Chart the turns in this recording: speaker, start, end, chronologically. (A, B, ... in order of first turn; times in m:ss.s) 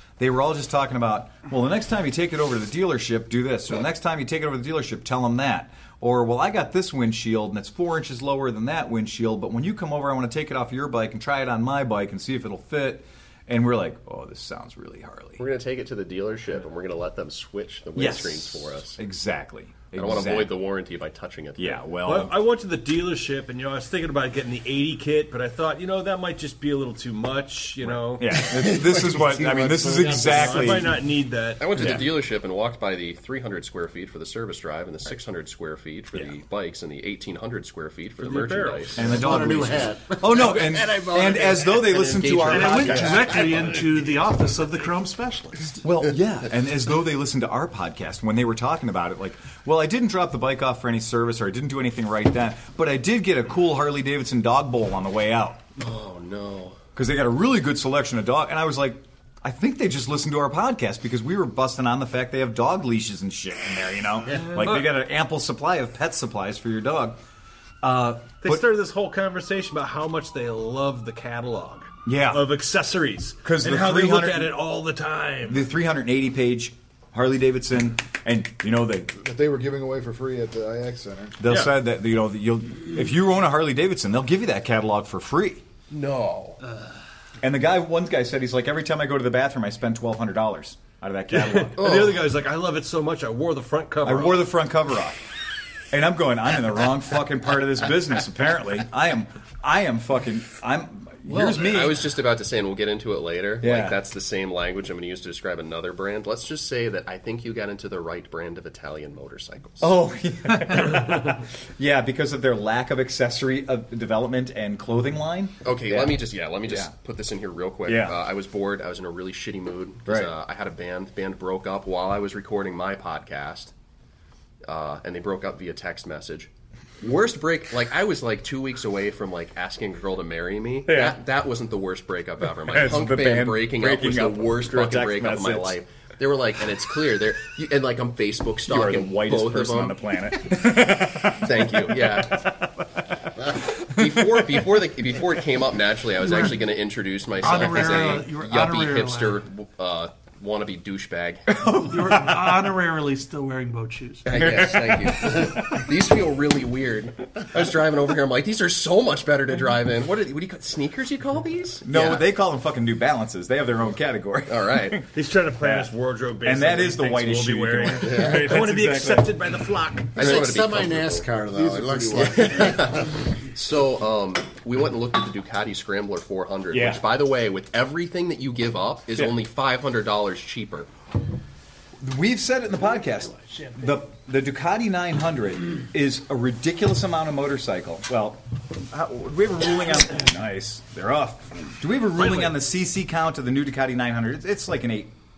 0:00.2-0:15.4 A
0:15.4-0:19.0 B
0:18.0-0:20.5 A
0:19.9-0:21.8 B
0:21.6-0:22.4 A
0:22.0-0:28.4 C
0:27.8-0:30.9 A
0:28.3-0:31.0 D
0:30.1-0:32.0 C
0:31.6-0:39.1 B
0:31.8-0:32.0 A
0:36.1-0:36.4 A
0:38.2-0:39.2 C
0:39.0-0:43.3 A
0:39.0-0:42.1 D
0:41.7-0:43.8 B
0:42.4-0:45.8 E
0:42.9-0:43.8 D
0:45.8-0:55.6 A
0:55.8-0:56.8 B
0:57.0-1:07.2 A
1:04.3-1:05.0 C
1:07.8-1:08.7 A
1:08.4-1:15.7 C
1:12.0-1:12.5 A
1:13.4-1:14.6 A
1:15.5-1:19.2 A
1:19.2-1:21.4 F
1:21.4-1:25.6 A
1:21.5-1:21.8 C
1:25.9-1:26.6 B
1:27.4-1:32.0 A
1:31.3-1:34.5 C
1:31.8-1:32.2 B
1:34.0-1:35.2 A
1:35.9-1:42.1 A
1:41.3-1:50.0 B
1:43.6-1:44.0 A
1:49.8-1:56.9 A
1:55.6-2:03.7 B
1:57.9-1:58.2 A
2:04.6-2:06.5 B
2:07.0-2:20.0 B
2:10.9-2:11.2 A
2:12.6-2:15.8 A
2:18.7-2:22.7 A
2:21.4-2:22.5 B
2:23.7-2:24.6 A
2:23.9-2:31.6 B
2:27.4-2:29.4 E
2:31.5-2:32.7 A
2:31.8-2:34.3 E
2:34.2-2:42.2 B
2:34.4-2:35.6 A
2:41.8-2:45.0 A
2:44.5-2:45.0 B
2:45.1-2:50.4 C
2:45.6-2:45.9 A
2:46.4-2:49.4 A
2:48.1-2:48.6 D
2:50.2-2:51.3 B
2:50.2-2:53.1 D
2:51.6-2:52.6 F
2:52.0-3:00.9 B
2:56.7-2:57.1 A
3:02.0-3:15.1 A
3:12.2-3:12.6 C